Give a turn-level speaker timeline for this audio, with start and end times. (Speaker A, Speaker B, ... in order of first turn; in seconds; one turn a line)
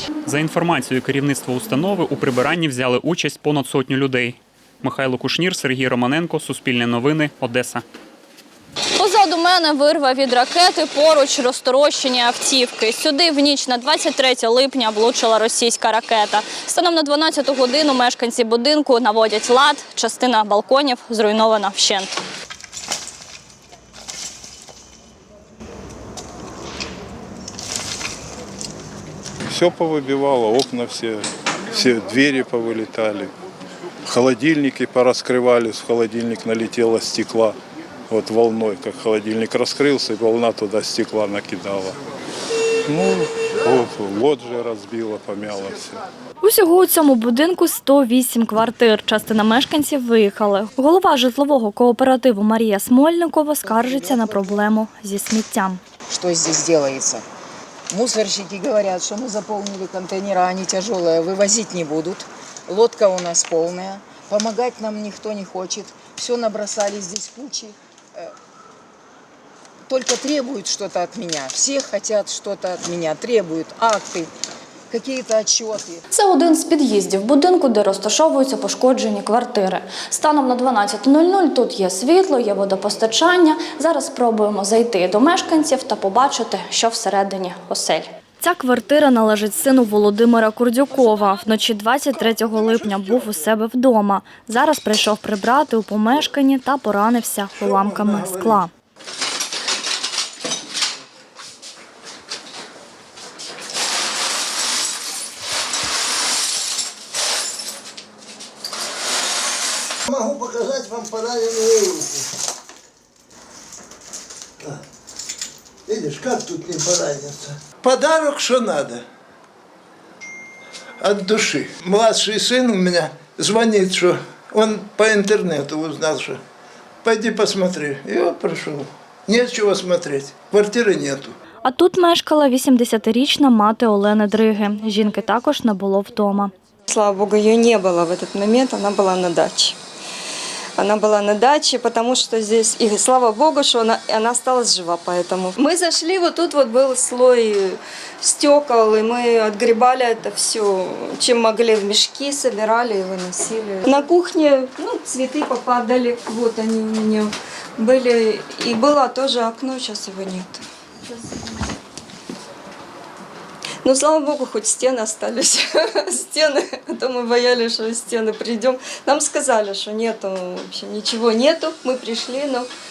Speaker A: 0.3-7.8
Speaker B: 9.0-22.1
Speaker C: 29.5-33.3
Speaker C: 34.1-37.5
Speaker C: 38.1-42.0
Speaker C: 42.9-46.0
Speaker B: 46.4-55.8
Speaker D: 53.7-54.3
Speaker D: 56.1-57.2
Speaker D: 57.9-68.3
Speaker D: 69.9-74.3
Speaker D: 74.9-76.0
Speaker B: 76.1-98.7
Speaker E: 92.7-93.0
Speaker E: 97.6-98.6
Speaker E: 110.1-112.3
Speaker E: 115.9-119.0
Speaker E: 121.0-126.4
Speaker E: 127.0-131.3
Speaker B: 131.7-136.5
Speaker F: 136.9-139.8
Speaker F: 140.8-160.6
Speaker F: 163.8-172.7